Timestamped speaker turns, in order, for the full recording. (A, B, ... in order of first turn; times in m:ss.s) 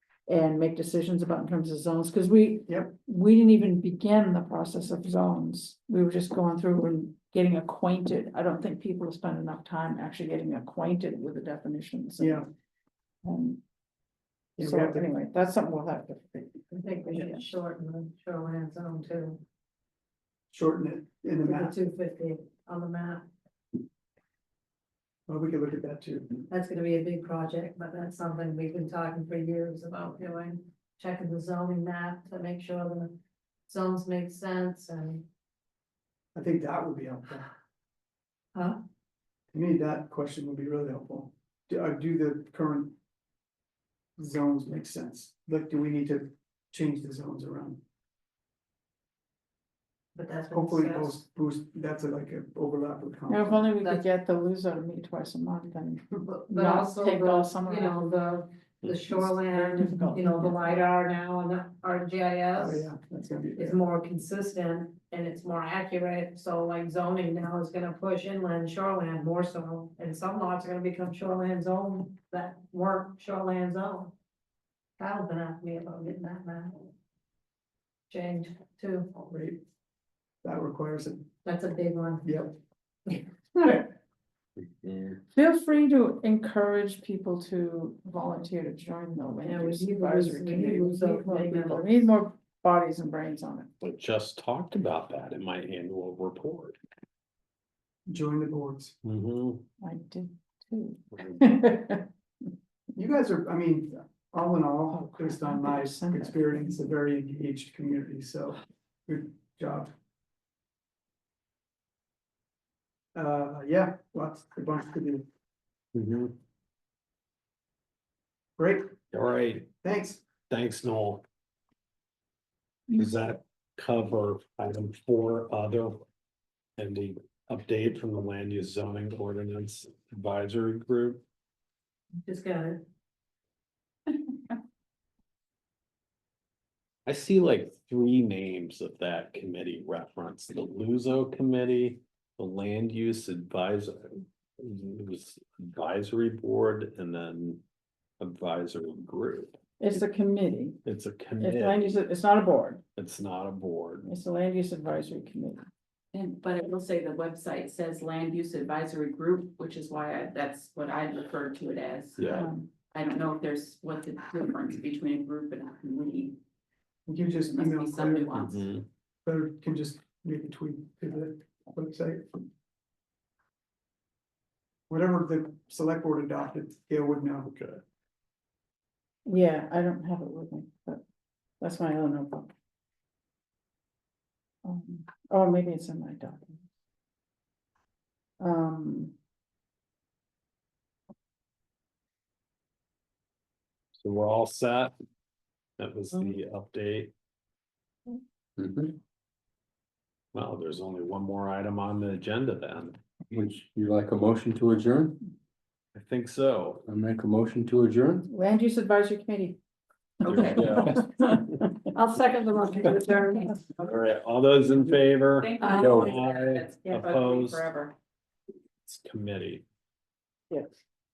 0:00.3-0:12.5 A
0:12.2-0:12.5 B
0:13.2-0:13.6 A
0:14.6-0:15.1 B
0:14.6-0:17.4 A
0:16.7-0:19.4 C
0:20.5-0:21.8 B
0:21.4-0:23.2 C
0:25.3-0:26.4 B
0:26.5-0:35.3 C
0:36.3-0:37.5 B
0:39.5-0:42.9 B
0:44.2-0:47.8 B
0:50.2-0:51.2 C
0:50.5-0:53.7 B
0:53.3-0:58.0 A
0:56.2-1:02.9 C
0:59.1-1:00.9 A
1:02.6-1:03.8 B
1:03.6-1:14.1 C
1:15.0-1:16.9 C
1:18.1-1:19.1 C
1:19.3-1:19.6 B
1:20.4-1:21.3 B
1:21.4-1:22.5 C
1:22.2-1:22.5 B
1:23.1-1:23.8 C
1:25.3-1:33.7 A
1:29.4-1:32.1 C
1:33.8-1:36.8 D
1:38.1-1:39.0 B
1:39.0-1:39.6 D
1:39.8-1:42.1 A
1:43.0-1:49.9 B
1:44.9-1:46.8 A
1:53.2-1:55.3 B
1:56.0-1:56.3 D
1:58.6-1:58.9 B
1:59.1-1:59.8 D
1:59.8-2:00.2 B
2:00.3-2:01.2 D
2:02.9-2:06.0 D
2:06.8-2:11.2 D
2:12.2-2:12.8 C
2:17.1-2:27.6 D
2:28.2-2:29.6 D
2:29.8-2:30.8 A
2:30.8-2:32.0 D
2:31.4-2:32.8 A
2:33.0-2:34.1 D
2:34.0-2:35.6 A
2:36.1-2:46.4 E
2:42.2-2:42.5 D
2:42.3-2:42.7 A
2:47.1-2:48.4 B
2:47.4-2:48.6 E
2:48.4-2:48.9 D
2:49.2-2:52.4 B
2:54.9-2:57.5 B
2:57.5-2:57.8 D
2:59.3-3:01.0 A
3:01.6-3:02.5 A
3:04.6-3:06.7 A
3:08.4-3:09.1 A
3:14.0-3:14.9 D
3:15.8-3:17.1 D
3:18.6-3:19.0 F
3:20.3-3:23.0 D
3:23.3-3:25.2 F
3:26.0-3:26.9 D
3:26.8-3:28.3 F
3:28.3-3:29.6 A
3:30.2-3:30.6 D
3:30.2-3:31.7 A
3:30.4-3:31.1 F
3:31.9-3:33.7 C
3:33.8-3:37.7 D
3:35.4-3:38.0 E
3:35.7-3:36.1 F
3:38.8-3:39.6 D
3:40.5-3:40.8 A